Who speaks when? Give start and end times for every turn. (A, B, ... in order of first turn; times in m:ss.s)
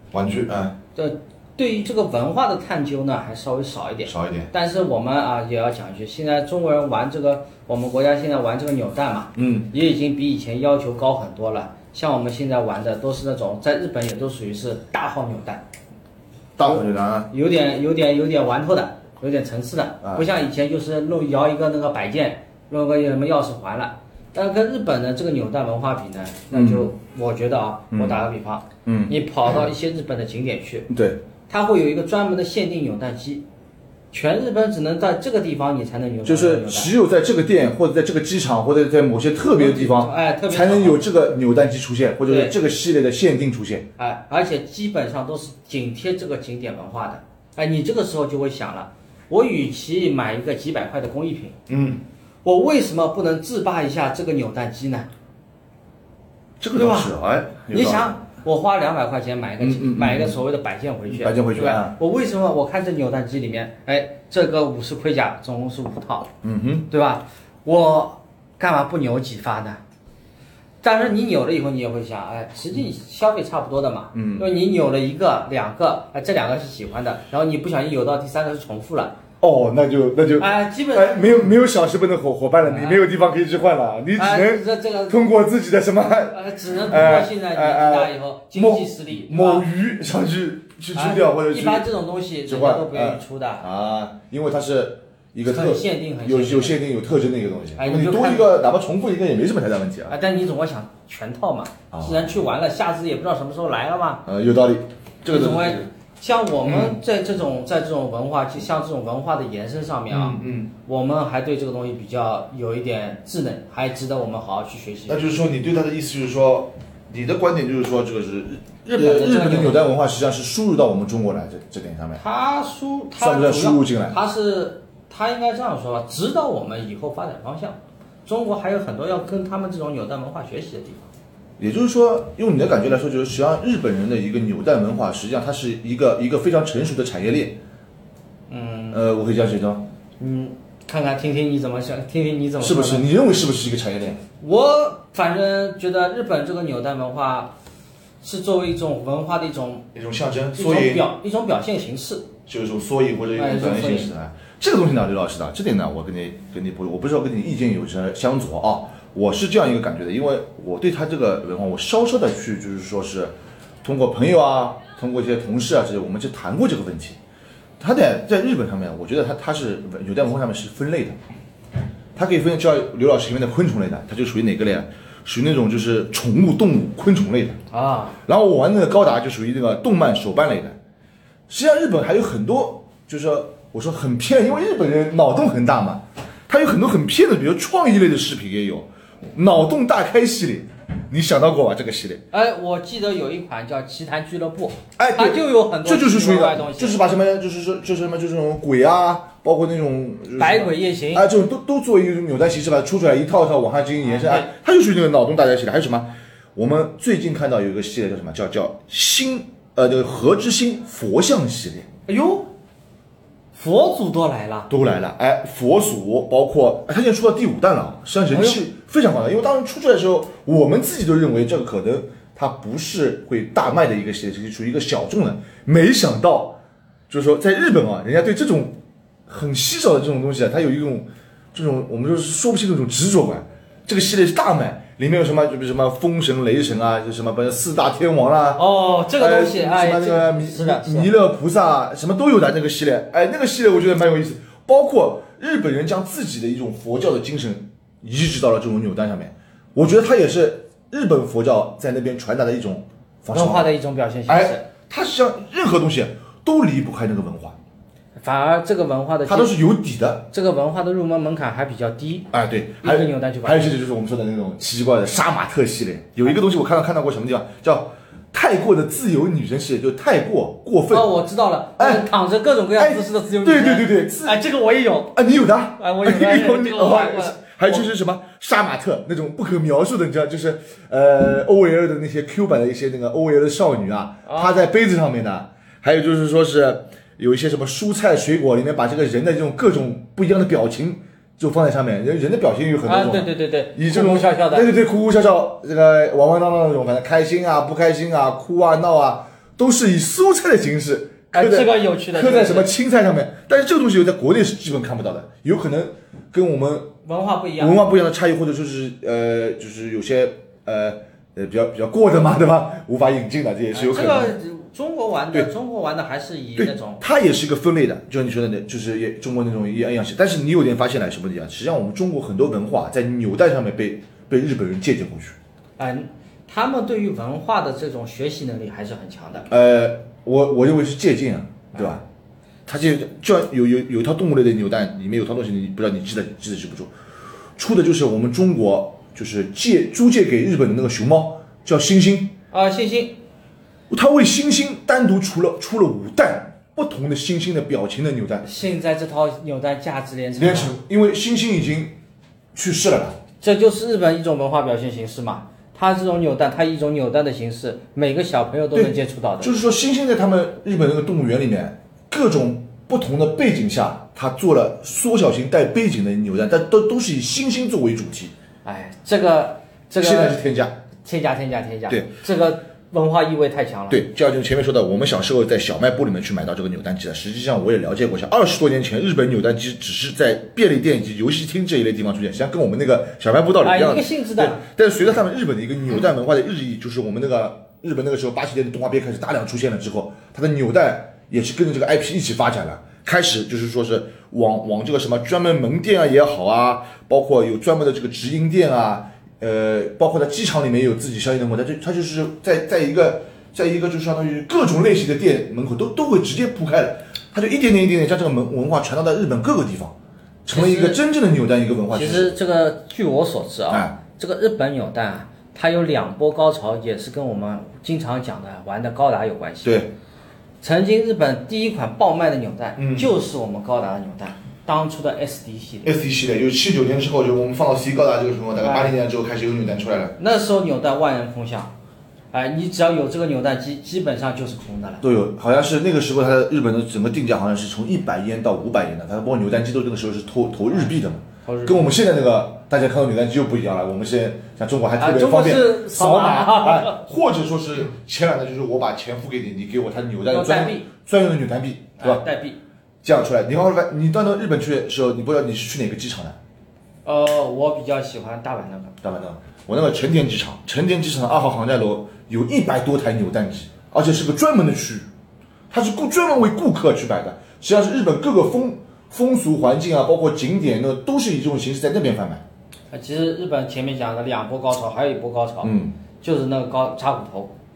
0:00.1-0:00.8 A
0:01.0-0:15.6 B
0:04.1-0:04.5 A
0:09.4-0:09.7 A
0:16.6-0:17.3 A
0:16.6-0:30.9 B
0:20.0-0:20.3 A
0:26.5-0:26.9 A
0:27.9-0:28.2 A
0:28.8-0:29.6 A
0:30.9-0:31.2 A
0:31.5-0:33.4 B
0:34.1-0:36.9 B
0:36.2-0:43.9 A
0:39.5-0:41.0 B
0:42.3-0:42.6 B
0:44.0-0:51.6 B
0:51.7-0:52.0 A
0:52.4-0:55.1 B
0:56.6-0:58.2 A
0:56.8-0:57.1 B
0:57.7-1:06.3 B
0:59.6-1:00.4 A
1:01.1-1:02.0 A
1:06.4-1:06.9 A
1:06.9-1:09.8 B
1:10.8-1:19.2 B
1:14.1-1:14.5 A
1:19.4-1:31.9 A
1:20.4-1:21.4 B
1:22.6-1:23.0 B
1:24.2-1:25.2 B
1:26.3-1:29.7 B
1:30.9-1:33.7 B
1:32.5-1:40.1 A
1:35.4-1:36.8 B
1:37.8-1:38.5 B
1:40.1-1:44.2 B
1:41.9-1:42.4 A
1:44.3-1:45.9 A
1:45.3-1:55.3 B
1:46.6-1:47.0 A
1:50.1-1:50.7 A
1:55.1-2:02.2 A
1:58.9-1:59.9 B
2:02.2-2:11.1 B
2:03.2-2:04.2 A
2:11.6-2:17.6 A
2:18.5-2:19.0 B
2:18.9-2:19.9 A
2:20.2-2:23.1 B
2:22.6-2:24.2 A
2:24.4-2:27.6 B
2:28.2-2:29.9 B
2:29.9-2:31.1 A
2:30.6-2:32.3 B
2:32.5-2:47.2 A
2:33.4-2:34.1 B
2:47.8-2:51.2 A
2:52.2-2:57.6 A
2:57.7-2:58.2 B
2:58.3-3:00.8 A
3:01.5-3:12.2 A
3:12.3-3:17.0 B
3:15.0-3:31.9 A
3:20.4-3:21.3 B
3:24.0-3:24.5 B
3:32.1-3:32.5 B
3:33.5-3:34.7 B
3:34.7-3:58.6 A
3:38.3-3:38.6 B
3:58.6-4:01.1 B
3:59.2-4:13.7 A
4:13.3-4:14.6 B
4:14.3-4:17.6 A
4:18.2-4:19.6 B
4:19.3-4:20.3 A
4:20.3-4:22.3 B
4:22.3-4:31.1 A
4:22.8-4:23.8 B
4:30.9-4:35.2 B
4:31.8-4:32.1 A
4:32.8-4:34.4 A
4:35.1-5:06.9 A
4:35.8-4:37.9 B
4:44.3-4:44.7 B
4:52.9-4:54.7 B
5:01.3-5:02.7 B
5:07.0-5:07.8 B
5:07.6-5:14.4 A
5:13.7-5:17.0 B
5:16.6-5:25.4 A
5:25.8-5:29.5 B
5:29.5-5:32.0 A
5:31.7-5:32.0 B
5:32.7-5:36.9 A
5:37.6-5:42.4 A
5:42.5-5:43.2 B
5:43.9-5:48.5 A
5:48.4-5:50.7 B
5:50.4-5:52.0 A
5:52.6-5:53.2 A
5:53.4-5:59.5 B
5:58.7-6:08.3 A
6:08.6-6:10.4 B
6:10.0-6:10.8 A
6:11.0-6:14.0 B
6:13.9-6:52.4 A
6:23.6-6:24.6 B
6:50.5-6:51.0 B
6:51.9-6:59.8 B
6:53.7-6:54.0 A
6:59.6-6:59.9 A
7:00.6-7:05.9 B
7:02.8-7:03.1 A
7:05.8-7:10.2 A
7:08.6-7:09.0 B
7:10.2-7:11.7 B
7:12.3-7:15.0 B
7:15.0-7:32.3 A
7:21.5-7:21.8 B
7:25.0-7:27.0 B
7:30.3-7:30.9 B
7:32.0-7:32.6 B
7:33.0-7:36.4 A
7:37.0-7:39.0 B
7:39.0-7:45.1 A
7:45.7-7:52.4 A
7:52.9-7:57.6 B
7:55.6-7:56.0 A